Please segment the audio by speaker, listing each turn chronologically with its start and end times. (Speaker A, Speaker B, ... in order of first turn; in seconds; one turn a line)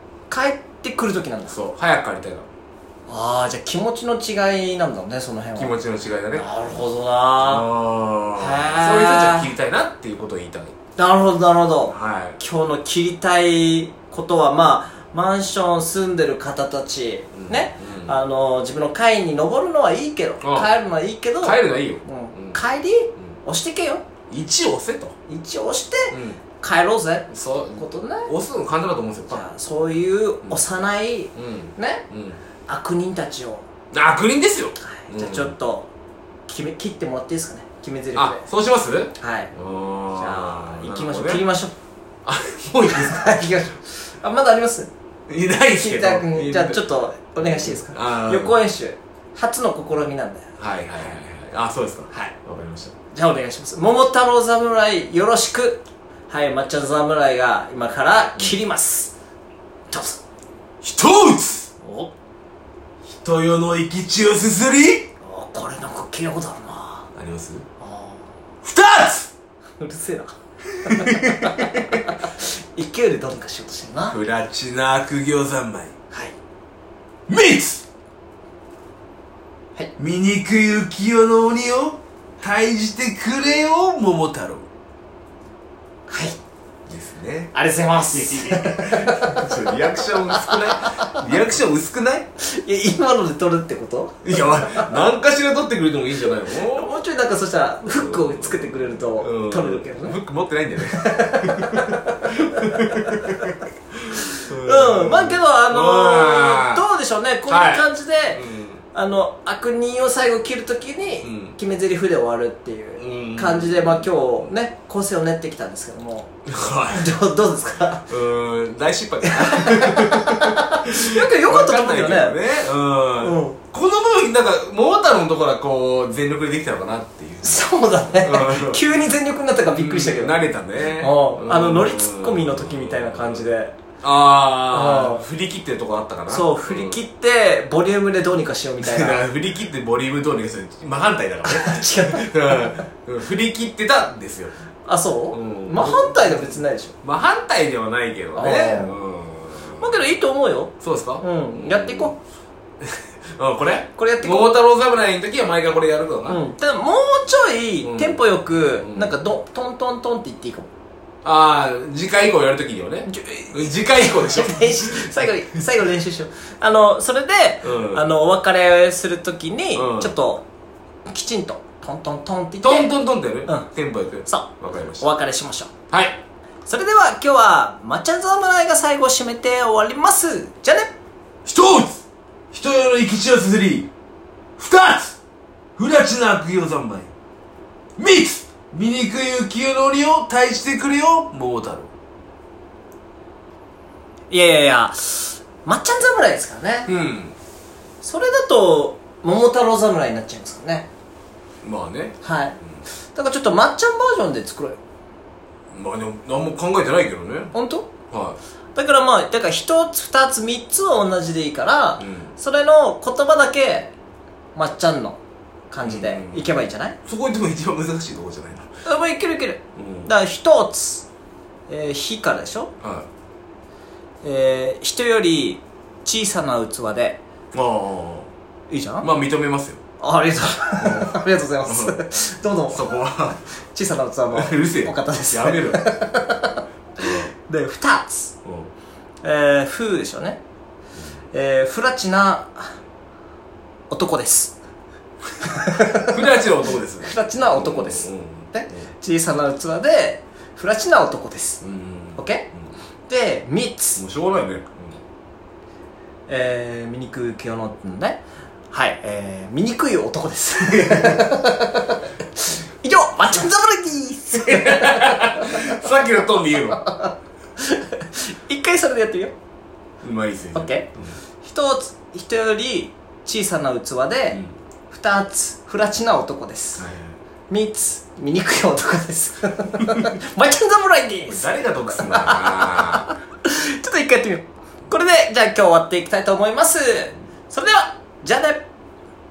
Speaker A: 0.3-1.6
Speaker B: 1.5-2.5
Speaker A: 3.1-5.7
Speaker B: 5.5-6.5
Speaker A: 6.3-7.7
Speaker B: 7.4-10.7
Speaker A: 8.4-9.5
Speaker A: 11.0-24.0
Speaker B: 11.9-12.4
Speaker B: 17.3-18.2
Speaker B: 20.4-20.7
Speaker B: 21.4-22.6
Speaker B: 24.3-25.1
Speaker A: 25.2-28.3
Speaker B: 26.1-26.4
Speaker B: 27.3-29.4
Speaker A: 29.3-32.0
Speaker B: 31.3-32.4
Speaker A: 32.7-33.6
Speaker B: 33.9-35.5
Speaker A: 34.8-35.9
Speaker A: 36.5-38.5
Speaker B: 38.1-41.4
Speaker A: 39.2-39.5
Speaker A: 40.1-41.7
Speaker B: 42.2-43.6
Speaker A: 42.8-44.9
Speaker B: 45.3-46.8
Speaker A: 45.7-50.5
Speaker B: 47.4-48.6
Speaker B: 50.6-52.9
Speaker A: 53.1-59.1
Speaker A: 59.9-60.2
Speaker B: 60.8-61.7
Speaker A: 61.8-62.1
Speaker B: 63.0-65.1
Speaker A: 65.2-67.1
Speaker B: 67.1-67.6
Speaker A: 67.8-68.2
Speaker B: 68.6-69.3
Speaker A: 69.8-74.2
Speaker B: 70.8-72.0
Speaker B: 74.1-75.9
Speaker B: 77.3-77.8
Speaker B: 80.0-84.7
Speaker A: 86.1-86.4
Speaker B: 86.9-87.5
Speaker A: 87.5-91.4
Speaker B: 88.1-92.3
Speaker A: 92.4-95.0
Speaker B: 94.2-97.0
Speaker A: 96.5-100.2
Speaker B: 97.9-106.8
Speaker A: 100.9-103.4
Speaker A: 104.2-116.3
Speaker B: 107.5-108.8
Speaker B: 111.2-111.5
Speaker B: 113.0-114.1
Speaker B: 116.5-117.1
Speaker A: 116.9-118.1
Speaker B: 118.1-128.8
Speaker A: 119.2-122.4
Speaker A: 123.2-123.6
Speaker A: 127.4-133.8
Speaker B: 129.6-133.5
Speaker B: 134.0-137.0
Speaker A: 134.7-135.2
Speaker A: 136.3-139.2
Speaker B: 138.8-144.5
Speaker A: 141.4-142.8
Speaker A: 144.8-146.9
Speaker B: 145.3-150.0
Speaker A: 148.3-148.9
Speaker A: 149.8-152.2
Speaker B: 150.8-152.1
Speaker B: 152.8-156.4
Speaker A: 153.9-154.5
Speaker A: 156.3-160.7
Speaker B: 157.8-159.2
Speaker B: 161.2-165.6
Speaker A: 163.1-170.4
Speaker B: 167.6-168.1
Speaker B: 169.7-170.1
Speaker A: 171.1-172.9
Speaker B: 172.6-175.1
Speaker A: 174.2-175.7
Speaker B: 175.9-176.2
Speaker A: 176.7-180.9
Speaker B: 181.4-183.9
Speaker B: 184.6-185.2
Speaker B: 185.8-187.1
Speaker B: 188.0-191.9
Speaker A: 194.3-196.9
Speaker B: 196.9-197.3
Speaker A: 198.0-200.9
Speaker B: 201.6-202.2
Speaker A: 202.2-204.8
Speaker B: 205.7-207.5
Speaker A: 207.5-207.9
Speaker B: 208.1-208.4
Speaker A: 208.7-213.9
Speaker B: 212.0-212.3
Speaker A: 214.5-215.2
Speaker A: 215.7-216.9
Speaker B: 215.8-216.5
Speaker B: 217.0-218.7
Speaker A: 218.8-221.1
Speaker B: 219.8-220.1
Speaker A: 221.7-222.7
Speaker B: 222.8-223.1
Speaker A: 224.2-227.2
Speaker B: 227.5-228.3
Speaker A: 228.7-229.1
Speaker B: 229.0-229.8
Speaker A: 230.0-238.3
Speaker B: 230.8-232.0
Speaker B: 232.7-233.4
Speaker B: 234.3-236.1
Speaker B: 237.0-237.3
Speaker B: 238.4-238.7
Speaker A: 239.2-240.4
Speaker A: 241.3-242.8
Speaker A: 243.9-244.6
Speaker A: 245.4-246.1
Speaker B: 245.9-248.9
Speaker A: 247.0-251.6
Speaker B: 251.6-252.2
Speaker A: 252.2-252.5
Speaker A: 253.1-254.0
Speaker B: 253.9-255.0
Speaker A: 256.3-258.2
Speaker A: 258.7-265.8
Speaker B: 260.7-261.2
Speaker B: 264.3-266.8
Speaker A: 266.7-269.3
Speaker B: 270.0-271.1
Speaker A: 270.5-270.9
Speaker A: 271.4-274.4
Speaker A: 274.9-276.9
Speaker B: 276.8-277.1
Speaker A: 277.5-288.6
Speaker B: 281.3-283.1